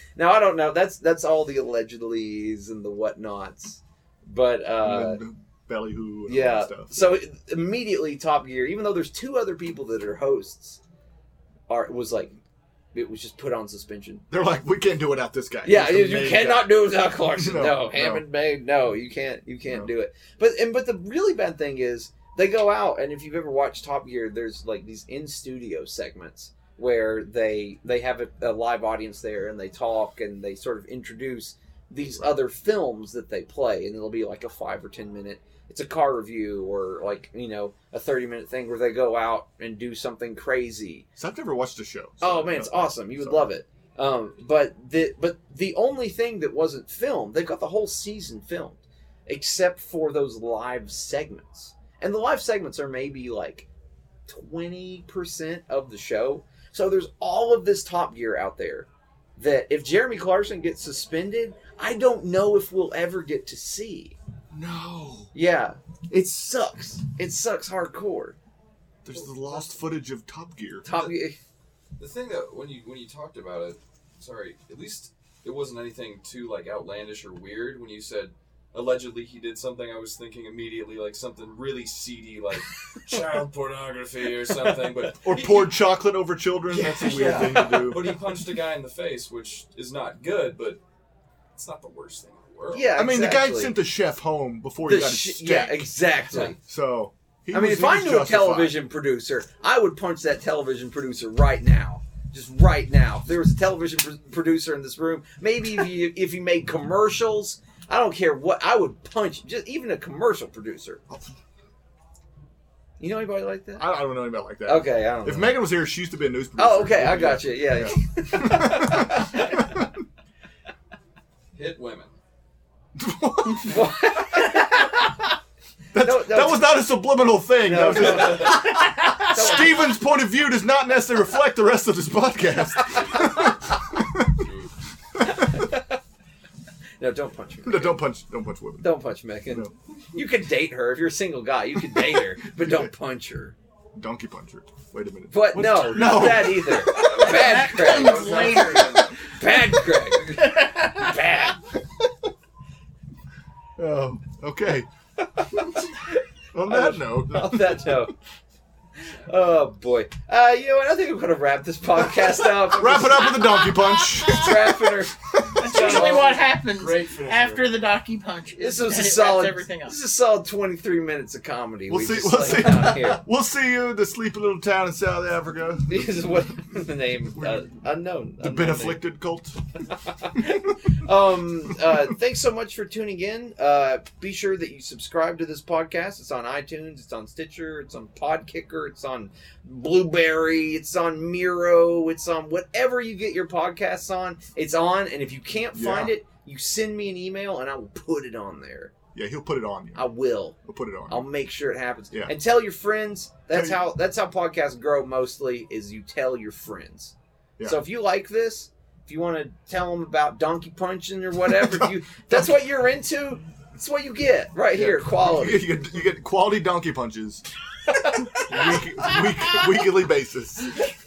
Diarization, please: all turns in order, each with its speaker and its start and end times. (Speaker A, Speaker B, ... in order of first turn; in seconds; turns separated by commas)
Speaker A: 0.2-5.2, Speaker B: 4.8-7.2, Speaker A: 6.3-10.8, Speaker A: 11.7-12.4, Speaker A: 12.9-14.2, Speaker B: 14.3-18.2, Speaker A: 15.6-41.1, Speaker B: 41.2-43.5, Speaker A: 42.2-53.7, Speaker A: 54.3-64.2, Speaker B: 64.5-65.3, Speaker A: 65.3-68.4, Speaker B: 69.0-70.9, Speaker C: 69.2-69.7, Speaker A: 70.8-71.4, Speaker C: 72.0-85.9, Speaker B: 85.2-88.1, Speaker C: 86.7-90.8, Speaker A: 87.0-88.1, Speaker C: 91.6-92.9, Speaker A: 92.7-93.8, Speaker B: 92.9-98.8, Speaker A: 94.8-96.6, Speaker A: 97.5-111.0, Speaker A: 113.0-113.9, Speaker B: 113.8-119.9, Speaker A: 114.7-115.6, Speaker A: 116.6-119.8, Speaker C: 121.5-122.1, Speaker B: 123.0-124.4, Speaker A: 123.6-125.1, Speaker B: 125.9-134.4, Speaker A: 126.0-126.9, Speaker A: 127.6-130.0, Speaker C: 134.3-134.7, Speaker B: 135.2-135.4, Speaker A: 135.2-135.9, Speaker A: 137.0-138.0, Speaker B: 137.6-138.9, Speaker A: 138.8-143.6, Speaker B: 142.6-142.9, Speaker B: 143.9-147.1, Speaker A: 145.3-151.6, Speaker C: 146.9-149.3, Speaker D: 147.0-149.2, Speaker D: 150.6-150.9, Speaker B: 153.8-154.9, Speaker A: 155.3-158.1, Speaker B: 156.5-158.1, Speaker A: 159.0-166.4, Speaker B: 162.5-166.0, Speaker D: 165.6-170.0, Speaker C: 165.7-166.1, Speaker C: 166.8-167.6, Speaker A: 168.6-173.2, Speaker B: 171.9-176.5, Speaker A: 175.9-179.1, Speaker B: 177.3-177.8, Speaker B: 178.4-179.6, Speaker A: 180.2-198.9, Speaker B: 195.7-196.2, Speaker B: 199.1-201.3, Speaker A: 199.9-200.6, Speaker A: 201.1-215.7, Speaker B: 203.5-203.8, Speaker B: 211.5-212.5, Speaker B: 214.7-217.4, Speaker A: 217.9-219.2, Speaker B: 218.4-220.7